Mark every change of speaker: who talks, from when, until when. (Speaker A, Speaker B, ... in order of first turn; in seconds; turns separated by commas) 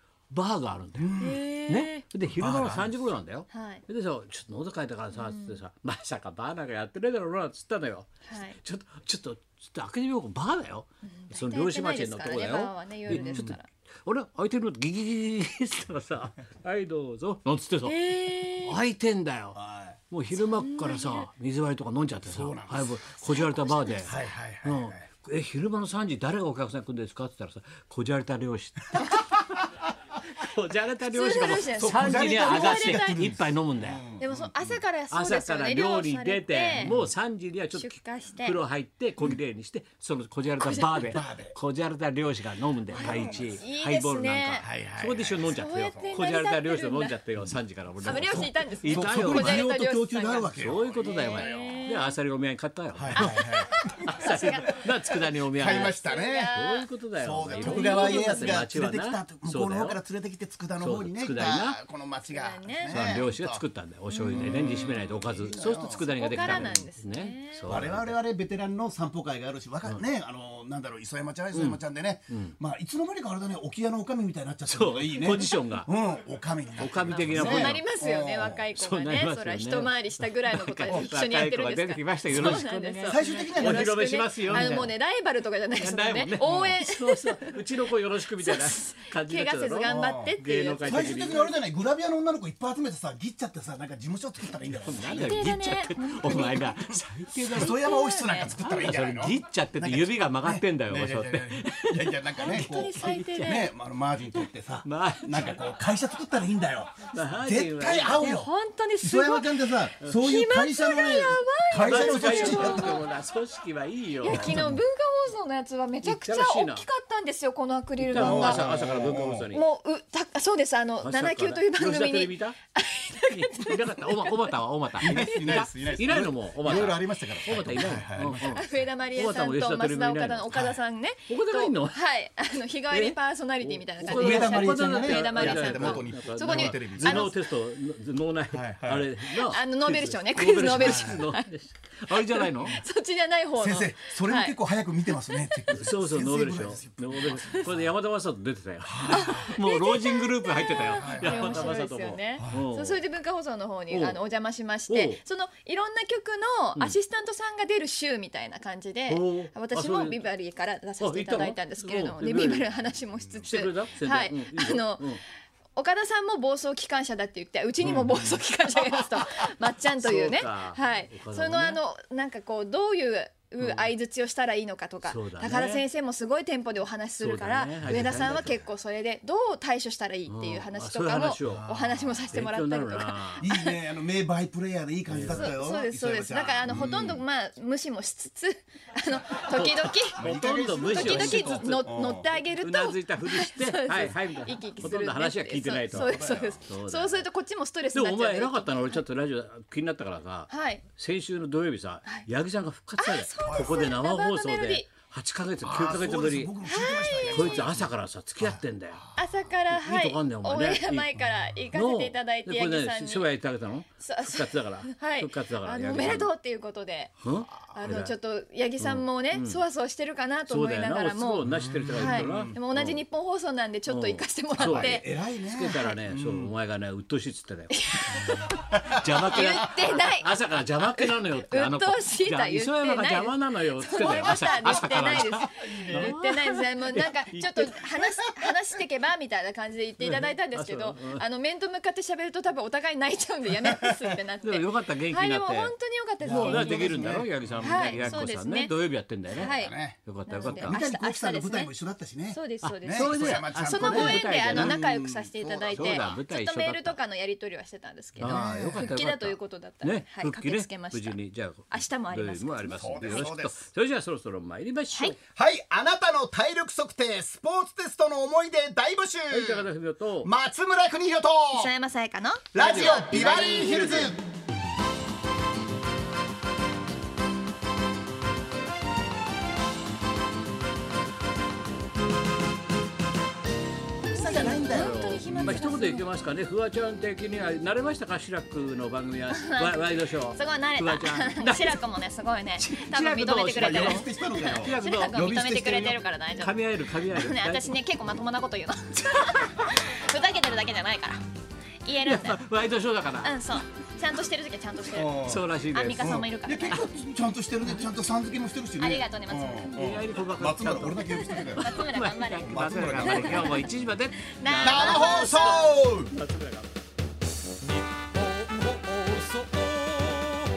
Speaker A: 0.3-1.1, Speaker B: 1.0-1.4, Speaker C: 1.2-2.0, Speaker A: 1.7-18.1, Speaker B: 2.4-2.9, Speaker C: 3.5-3.8, Speaker C: 5.1-5.6, Speaker C: 8.3-8.6, Speaker C: 11.1-13.7, Speaker B: 13.1-13.5, Speaker C: 17.8-18.8, Speaker A: 18.6-19.6, Speaker B: 19.6-20.0, Speaker A: 20.1-29.4, Speaker C: 20.4-21.3, Speaker B: 22.2-23.0, Speaker C: 23.2-24.1, Speaker B: 24.1-25.0, Speaker A: 30.3-34.0, Speaker C: 31.0-33.2, Speaker B: 31.7-34.8, Speaker C: 34.2-36.9, Speaker A: 35.1-49.7, Speaker B: 36.8-37.1, Speaker C: 37.7-38.6, Speaker C: 40.6-41.2, Speaker B: 41.0-41.5, Speaker B: 42.9-43.6, Speaker C: 42.9-44.6, Speaker B: 44.6-46.1, Speaker C: 45.5-47.2, Speaker C: 48.0-52.1, Speaker B: 48.0-51.8, Speaker A: 50.5-53.5, Speaker B: 52.9-54.5, Speaker C: 53.1-56.9, Speaker A: 54.1-56.0, Speaker B: 55.5-56.6, Speaker A: 56.5-60.0, Speaker B: 57.2-63.6, Speaker C: 57.5-58.6, Speaker A: 60.8-61.8, Speaker C: 62.3-63.2, Speaker A: 62.9-68.2, Speaker C: 64.1-64.5, Speaker B: 64.3-66.8, Speaker C: 65.6-67.8, Speaker B: 67.7-78.7, Speaker A: 71.5-72.5, Speaker A: 74.7-75.9, Speaker A: 76.8-77.8, Speaker C: 77.1-87.7, Speaker A: 78.8-84.9, Speaker B: 82.3-83.9, Speaker B: 84.5-84.8, Speaker A: 85.8-91.5, Speaker B: 86.4-86.8, Speaker C: 88.4-91.5, Speaker B: 89.8-95.5, Speaker A: 94.8-97.8, Speaker C: 95.0-97.0, Speaker B: 96.9-113.0, Speaker C: 97.5-98.6, Speaker A: 98.6-102.7, Speaker C: 102.3-103.7, Speaker A: 104.8-105.6, Speaker A: 107.1-108.3, Speaker C: 108.2-113.0, Speaker A: 111.8-114.8, Speaker C: 114.2-118.9, Speaker B: 114.3-114.8, Speaker A: 116.0-116.8, Speaker A: 118.0-119.6, Speaker B: 118.1-119.5, Speaker C: 119.5-125.8, Speaker A: 121.0-122.6, Speaker A: 123.3-130.5, Speaker B: 125.0-128.8, Speaker C: 128.5-137.3, Speaker B: 130.5-130.8, Speaker A: 131.3-132.0, Speaker A: 132.9-142.8, Speaker B: 134.1-137.3, Speaker B: 138.5-139.1, Speaker C: 139.3-141.5, Speaker B: 140.6-141.2, Speaker C: 142.1-144.6, Speaker B: 143.6-147.9, Speaker C: 145.2-145.7, Speaker A: 145.7-153.0, Speaker B: 148.8-149.6, Speaker C: 149.1-165.2, Speaker B: 150.9-151.8, Speaker B: 152.4-152.7, Speaker A: 153.9-154.2, Speaker A: 154.9-155.2, Speaker A: 159.1-160.2, Speaker A: 161.0-162.7, Speaker B: 163.2-163.5, Speaker A: 163.5-165.2, Speaker C: 165.8-183.8, Speaker A: 167.8-168.3, Speaker B: 167.8-168.2, Speaker A: 169.9-171.8, Speaker A: 173.6-173.9, Speaker A: 175.0-175.8, Speaker A: 177.2-178.5, Speaker B: 177.8-178.6, Speaker A: 180.3-181.6, Speaker B: 181.4-182.2, Speaker A: 182.3-183.5, Speaker B: 183.4-187.2, Speaker A: 185.1-185.5, Speaker C: 185.3-190.3, Speaker A: 189.5-191.9, Speaker B: 190.1-192.3, Speaker C: 190.8-199.0, Speaker A: 192.6-197.2, Speaker B: 195.9-196.6, Speaker A: 197.9-206.5, Speaker C: 200.5-200.8, Speaker C: 203.0-204.9, Speaker B: 203.4-203.8, Speaker B: 205.6-209.2, Speaker C: 206.6-207.7, Speaker A: 207.3-209.0, Speaker C: 209.2-213.3, Speaker A: 209.7-211.2, Speaker A: 211.7-216.3, Speaker C: 214.0-225.1, Speaker A: 217.2-218.1, Speaker A: 218.8-219.6, Speaker A: 220.5-223.0, Speaker B: 221.4-222.6, Speaker A: 223.9-228.2, Speaker B: 224.6-226.5, Speaker C: 225.7-225.9, Speaker C: 227.7-228.8, Speaker B: 228.7-229.7, Speaker A: 229.0-237.9, Speaker C: 229.3-248.7, Speaker B: 234.0-236.1, Speaker A: 240.0-241.2, Speaker B: 243.6-244.0, Speaker A: 244.4-245.7, Speaker B: 246.2-248.3, Speaker A: 246.2-250.8, Speaker C: 249.3-251.7, Speaker B: 249.3-250.0, Speaker B: 250.6-256.1, Speaker C: 252.3-261.2, Speaker A: 252.6-254.8, Speaker A: 255.7-257.0, Speaker B: 258.2-258.9, Speaker A: 258.2-265.2, Speaker C: 261.7-263.3, Speaker B: 262.7-263.6, Speaker B: 265.3-269.6, Speaker A: 269.3-270.3, Speaker B: 270.2-271.7, Speaker C: 271.5-273.2, Speaker B: 272.5-274.2, Speaker A: 272.6-274.2, Speaker B: 284.0-285.6, Speaker C: 284.0-286.1, Speaker A: 284.4-291.8, Speaker C: 289.3-296.6, Speaker A: 292.6-295.2, Speaker B: 293.5-296.0, Speaker A: 296.4-297.7, Speaker C: 297.1-301.2, Speaker A: 299.2-299.7, Speaker C: 301.8-302.4, Speaker A: 302.0-303.4, Speaker C: 303.2-306.8, Speaker B: 304.9-305.4, Speaker A: 305.2-306.2, Speaker B: 306.0-311.7, Speaker C: 308.8-309.8, Speaker A: 309.7-316.7, Speaker C: 311.1-313.7, Speaker B: 312.4-313.5, Speaker C: 314.2-315.7, Speaker B: 314.6-316.1, Speaker A: 318.1-320.4